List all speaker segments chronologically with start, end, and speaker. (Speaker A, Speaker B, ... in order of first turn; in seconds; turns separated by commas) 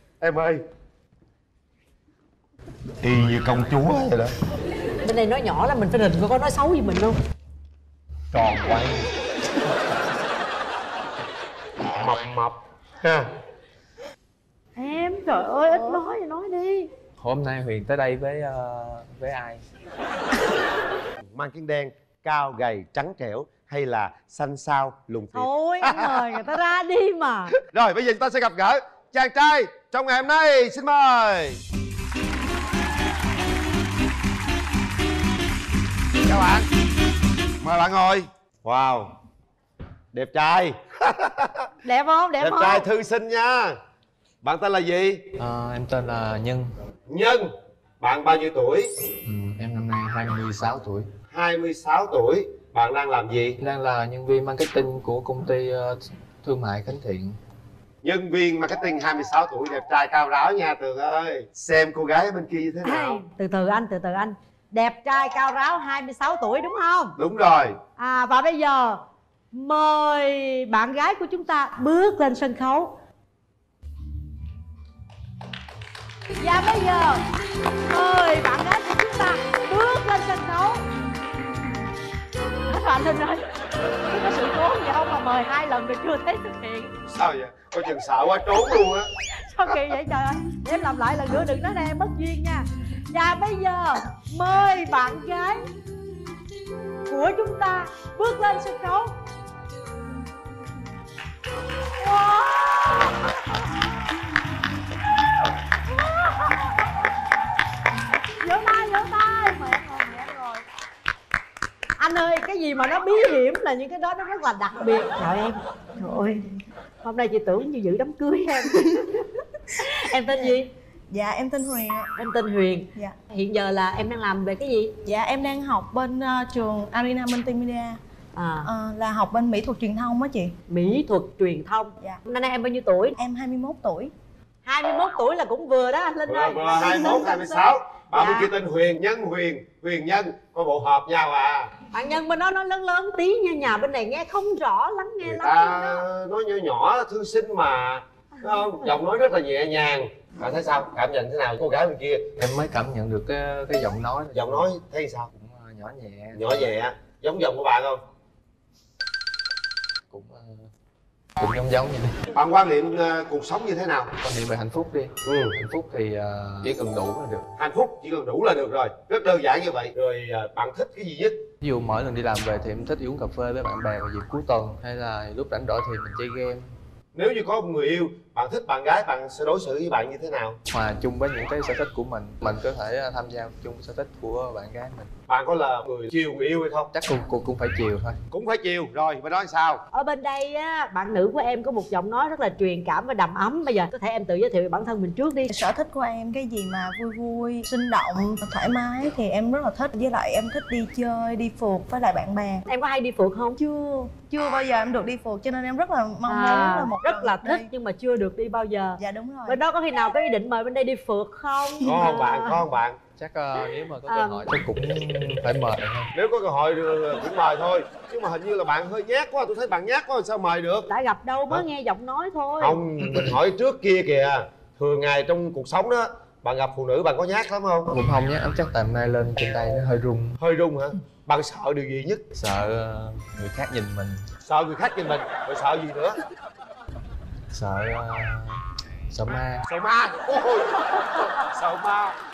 Speaker A: 0.2-0.6, Speaker A: 3.0-4.3, Speaker B: 5.0-7.2, Speaker C: 8.3-9.1, Speaker A: 11.9-13.3, Speaker B: 14.8-16.9, Speaker C: 17.2-19.6, Speaker A: 21.3-26.4, Speaker B: 25.3-27.5, Speaker A: 27.6-31.6, Speaker A: 36.2-36.7, Speaker A: 37.6-39.1, Speaker A: 40.1-41.7, Speaker B: 41.9-42.9, Speaker A: 42.4-43.8, Speaker A: 44.4-45.2, Speaker C: 45.4-46.7, Speaker A: 47.1-48.9, Speaker C: 49.3-51.1, Speaker A: 51.3-53.6, Speaker C: 53.6-57.4, Speaker A: 58.0-63.2, Speaker B: 62.8-67.2, Speaker A: 67.2-67.8, Speaker B: 68.0-69.0, Speaker B: 69.5-73.0, Speaker B: 76.4-77.2, Speaker B: 77.9-80.8, Speaker B: 82.7-83.5, Speaker B: 84.1-87.0, Speaker A: 87.1-89.1, Speaker B: 89.4-95.6, Speaker B: 97.1-99.2, Speaker B: 102.0-103.1, Speaker B: 108.4-110.4, Speaker B: 112.0-115.6, Speaker D: 116.0-116.5, Speaker B: 117.0-118.9, Speaker D: 118.8-119.0, Speaker B: 120.0-120.7, Speaker D: 121.1-122.1, Speaker B: 122.2-124.9, Speaker D: 125.1-128.0, Speaker B: 128.3-128.7, Speaker D: 128.6-130.6, Speaker B: 130.7-133.2, Speaker D: 133.2-134.1, Speaker B: 134.7-138.5, Speaker A: 136.3-141.7, Speaker B: 141.9-146.0, Speaker A: 145.2-152.3, Speaker C: 152.4-154.7, Speaker A: 154.3-155.3, Speaker C: 155.3-156.7, Speaker A: 156.3-158.0, Speaker C: 160.1-160.7, Speaker C: 161.4-162.2, Speaker A: 162.3-164.1, Speaker C: 164.2-167.4, Speaker A: 165.3-165.5, Speaker A: 167.6-171.4, Speaker C: 171.6-176.7, Speaker A: 177.1-180.6, Speaker C: 180.7-185.1, Speaker A: 185.3-186.9, Speaker C: 186.9-188.2, Speaker A: 188.3-189.8, Speaker B: 189.9-195.5, Speaker D: 195.5-202.6, Speaker B: 202.7-203.6, Speaker D: 203.6-207.7, Speaker B: 206.3-212.6, Speaker D: 209.0-209.6, Speaker A: 211.8-213.0, Speaker C: 213.2-216.1, Speaker B: 214.1-214.4, Speaker A: 216.2-220.9, Speaker B: 220.9-222.8, Speaker A: 222.6-227.9, Speaker C: 227.9-230.4, Speaker A: 230.4-232.2, Speaker C: 232.4-234.2, Speaker A: 234.5-236.2, Speaker C: 237.5-239.6, Speaker A: 239.7-242.2